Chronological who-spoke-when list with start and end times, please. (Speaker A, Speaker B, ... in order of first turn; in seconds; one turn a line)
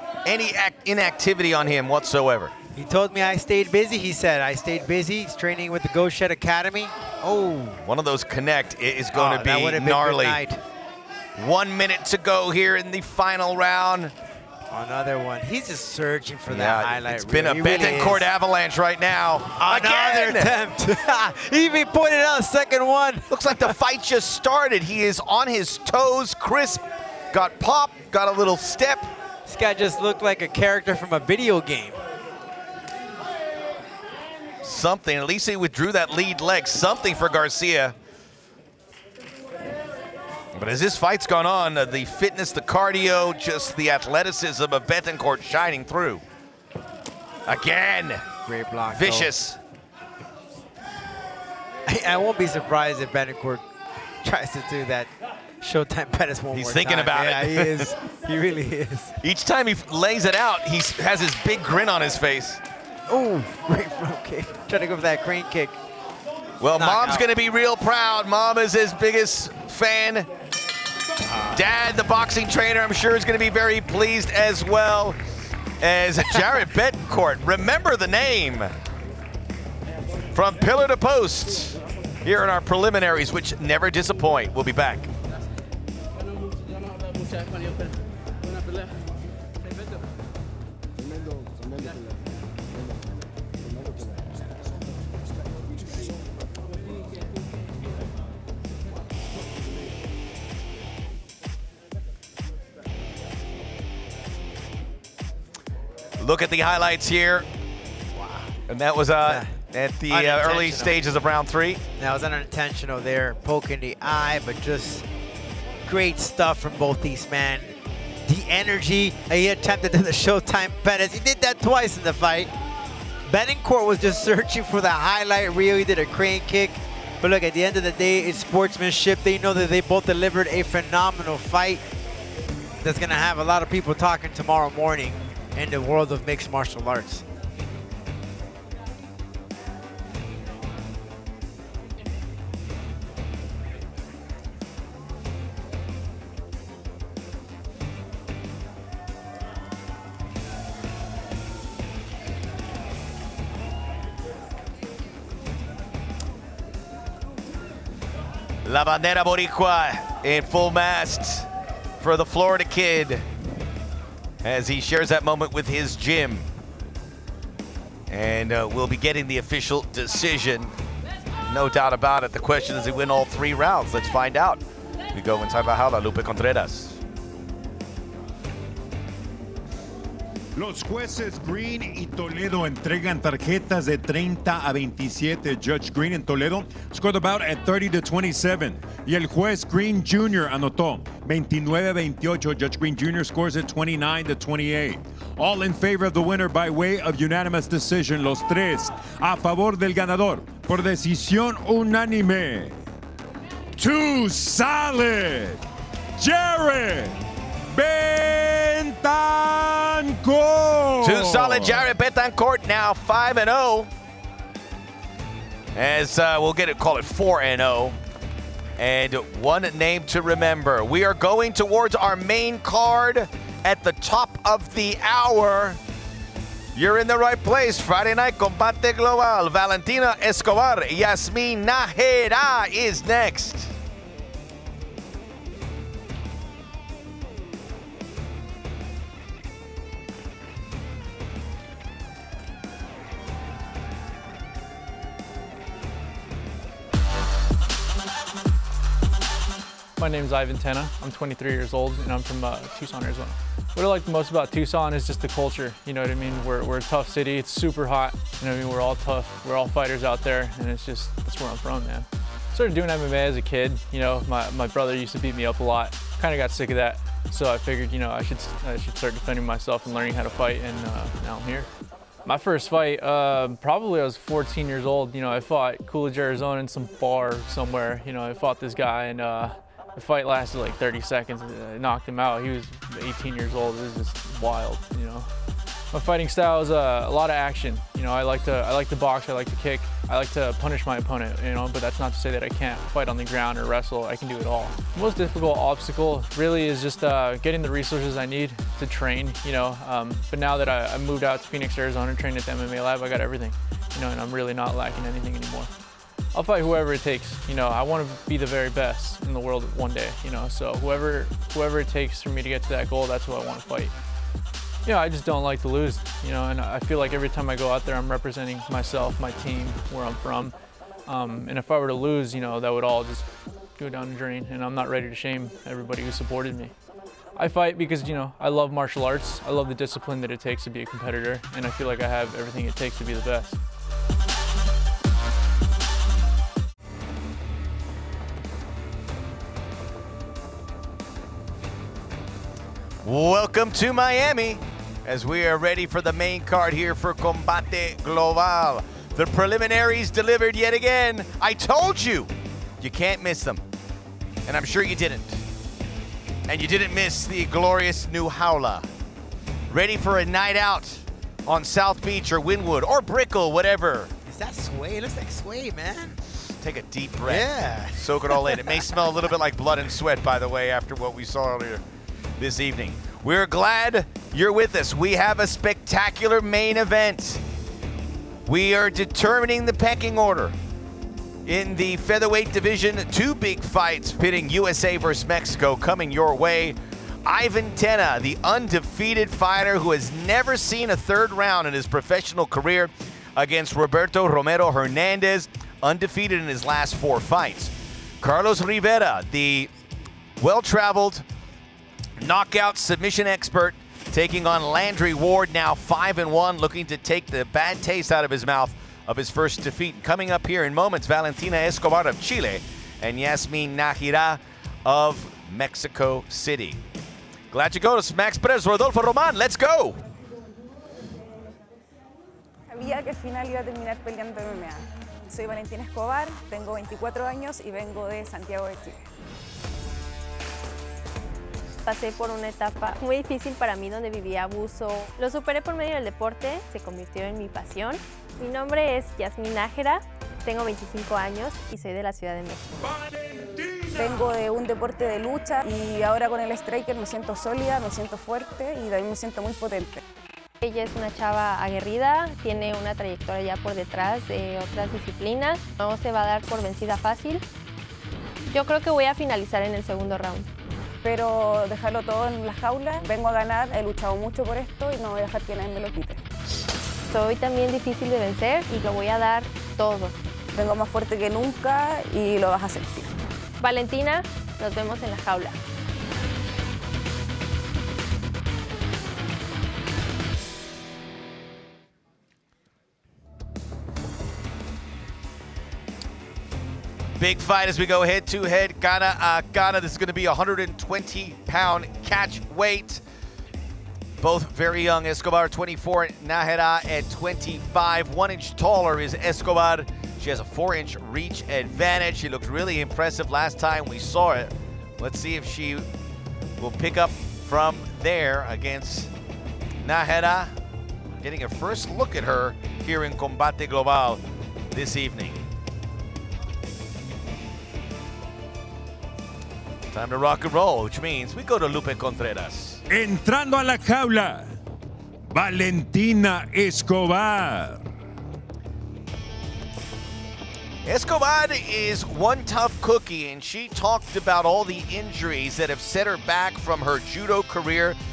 Speaker A: 0.2-2.5
Speaker B: 2.8-7.8
Speaker A: 7.8-10.4
Speaker B: 9.1-10.6
Speaker A: 11.4-14.1
Speaker B: 14.7-18.2
Speaker A: 16.5-20.6
Speaker B: 19.6-23.8
Speaker A: 23.3-29.1
Speaker B: 29.5-32.0
Speaker A: 34.6-38.0
Speaker A: 40.5-46.2
Speaker A: 47.5-48.3
Speaker B: 48.5-49.3
Speaker A: 48.9-49.6
Speaker B: 51.9-53.6
Speaker B: 54.2-55.1
Speaker B: 55.6-59.2
Speaker A: 56.5-57.9
Speaker A: 59.2-62.6
Speaker B: 63.1-65.8
Speaker A: 66.6-70.3
Speaker B: 66.8-67.3
Speaker A: 71.5-75.2
Speaker A: 75.8-78.7
Speaker A: 80.3-85.1
Speaker A: 106.2-107.5
Speaker B: 108.1-108.5
Speaker A: 108.7-111.8
Speaker B: 109.2-109.5
Speaker B: 110.1-111.0
Speaker B: 112.0-115.0
Speaker B: 115.9-117.8
Speaker B: 118.3-122.5
Speaker B: 123.3-131.8
Speaker B: 132.8-137.2
Speaker A: 158.6-161.5
Speaker A: 162.0-163.2
Speaker A: 164.4-166.5
Speaker A: 168.1-170.7
Speaker A: 171.5-174.6
Speaker A: 175.1-177.0
Speaker C: 180.6-202.8
Speaker C: 203.8-205.6
Speaker C: 206.2-207.2
Speaker C: 207.7-211.8
Speaker A: 211.0-213.9
Speaker A: 215.8-218.0
Speaker A: 218.8-225.8
Speaker A: 226.8-233.7
Speaker D: 250.0-271.7
Speaker D: 272.2-285.3
Speaker D: 285.9-305.7
Speaker D: 306.3-313.9
Speaker D: 314.9-320.6
Speaker D: 321.1-326.7
Speaker D: 327.4-333.6
Speaker A: 343.0-352.3
Speaker A: 352.8-353.6
Speaker A: 354.5-355.4
Speaker A: 356.5-358.9
Speaker A: 359.7-364.1
Speaker B: 364.3-366.2
Speaker A: 366.6-371.8
Speaker B: 367.3-368.8
Speaker A: 372.4-377.4
Speaker A: 378.5-380.6
Speaker A: 381.5-399.7
Speaker A: 400.4-401.2
Speaker A: 402.2-416.8
Speaker A: 417.5-420.0
Speaker E: 422.7-429.0
Speaker F: 431.9-442.7
Speaker C: 442.9-444.2
Speaker E: 444.0-450.0
Speaker F: 450.6-457.4
Speaker F: 458.5-460.5
Speaker E: 461.0-466.2
Speaker F: 467.1-470.2
Speaker E: 470.5-473.1
Speaker F: 473.6-475.6
Speaker A: 487.2-493.0
Speaker A: 494.2-505.9
Speaker A: 506.6-509.1
Speaker A: 509.8-510.5
Speaker A: 511.2-515.4
Speaker A: 519.9-522.8
Speaker C: 522.9-524.5
Speaker C: 525.3-527.8
Speaker A: 530.9-538.0